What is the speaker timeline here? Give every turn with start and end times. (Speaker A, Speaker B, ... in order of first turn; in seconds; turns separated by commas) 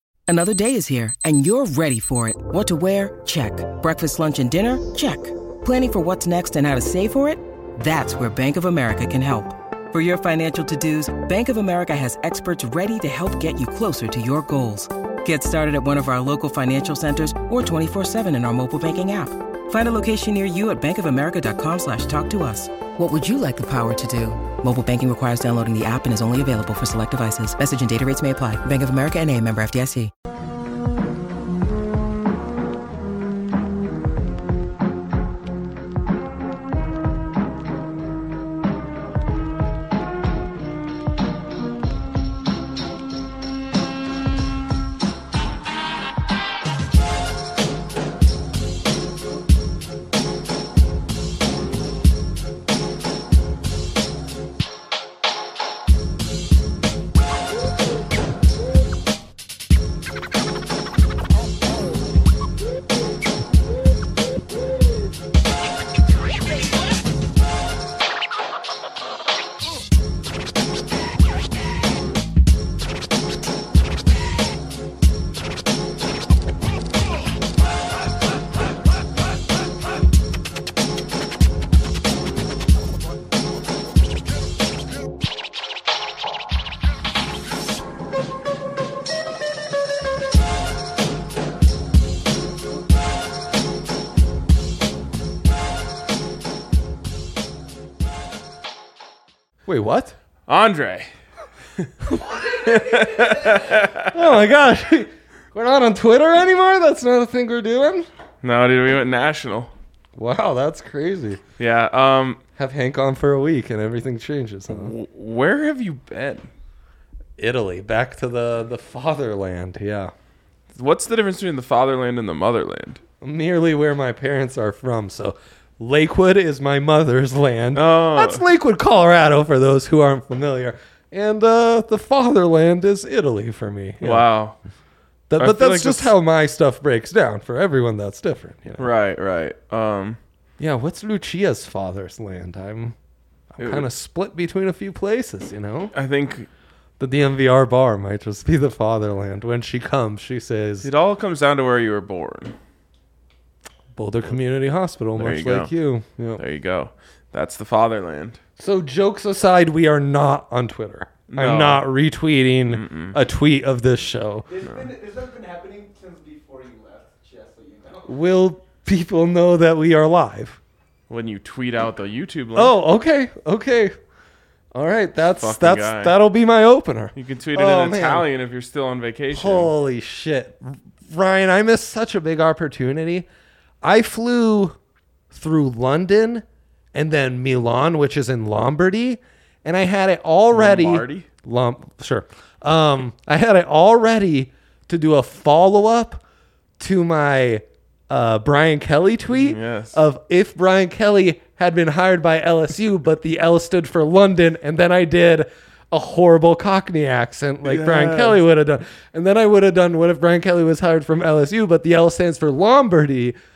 Speaker A: 0.3-30.1, Speaker B: 99.7-100.2, Speaker C: 100.5-101.1, Speaker C: 101.8-104.2, Speaker B: 104.1-108.1, Speaker C: 108.4-109.7, Speaker B: 110.2-111.4, Speaker C: 111.6-112.4, Speaker B: 112.6-114.9, Speaker C: 114.7-116.5, Speaker B: 117.4-120.1, Speaker C: 120.8-123.0, Speaker B: 123.2-134.2, Speaker C: 127.8-128.4, Speaker C: 134.0-134.6, Speaker B: 135.3-138.9, Speaker C: 135.4-136.2, Speaker C: 138.8-140.2, Speaker B: 140.6-143.0, Speaker B: 143.5-145.9, Speaker C: 143.6-143.9, Speaker C: 145.9-146.5, Speaker B: 147.0-150.9, Speaker C: 150.8-152.6, Speaker B: 153.9-156.4, Speaker C: 155.2-155.7, Speaker C: 156.4-158.4, Speaker B: 158.6-164.5, Speaker C: 161.3-161.8, Speaker C: 162.7-163.2, Speaker D: 164.5-168.1, Speaker B: 168.1-170.6, Speaker C: 171.1-172.8, Speaker B: 172.6-173.9, Speaker B: 174.7-178.3, Speaker C: 175.3-176.2, Speaker C: 177.2-179.7, Speaker B: 179.3-183.3, Speaker B: 183.8-184.8, Speaker B: 185.3-196.2, Speaker C: 190.5-191.3, Speaker B: 196.8-213.3, Speaker C: 199.3-200.0, Speaker C: 207.6-208.4